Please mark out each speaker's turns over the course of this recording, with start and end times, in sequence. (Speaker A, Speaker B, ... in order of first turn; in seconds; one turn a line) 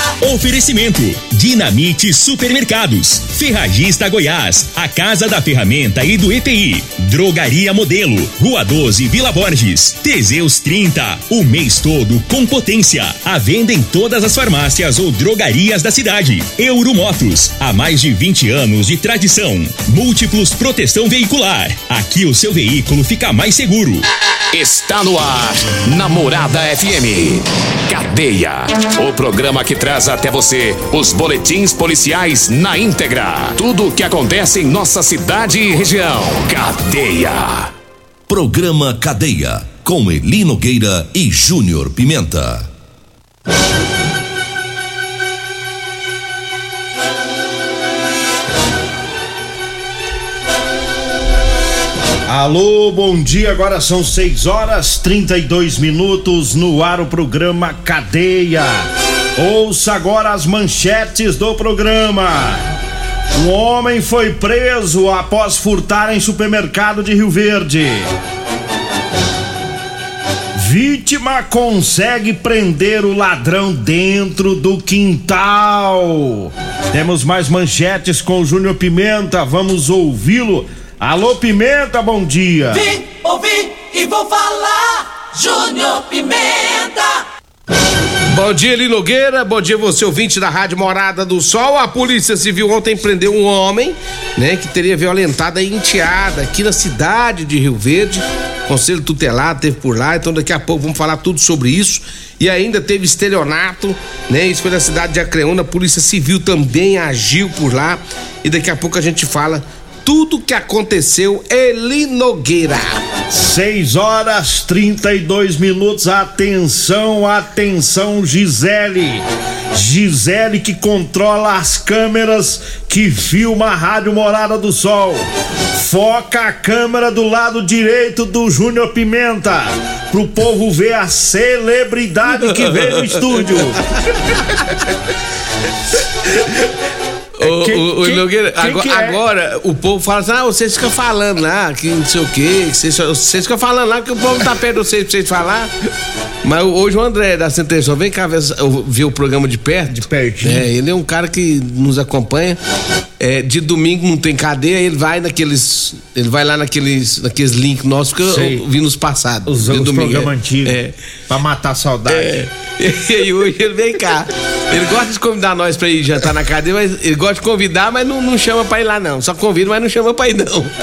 Speaker A: 0.2-24.1
Speaker B: 24.5-37.7
Speaker C: 38.3-42.7
Speaker D: 52.3-62.6
Speaker D: 63.3-68.1
Speaker D: 70.5-82.9
Speaker E: 83.2-84.7
Speaker E: 85.4-87.0
Speaker F: 88.3-113.0
Speaker D: 113.3-134.0
Speaker F: 132.7-133.2
Speaker F: 137.4-145.7
Speaker D: 137.4-139.2
Speaker F: 146.4-152.6
Speaker D: 149.9-150.7
Speaker F: 153.2-160.9
Speaker D: 158.2-158.6
Speaker D: 159.5-162.4
Speaker F: 162.1-170.7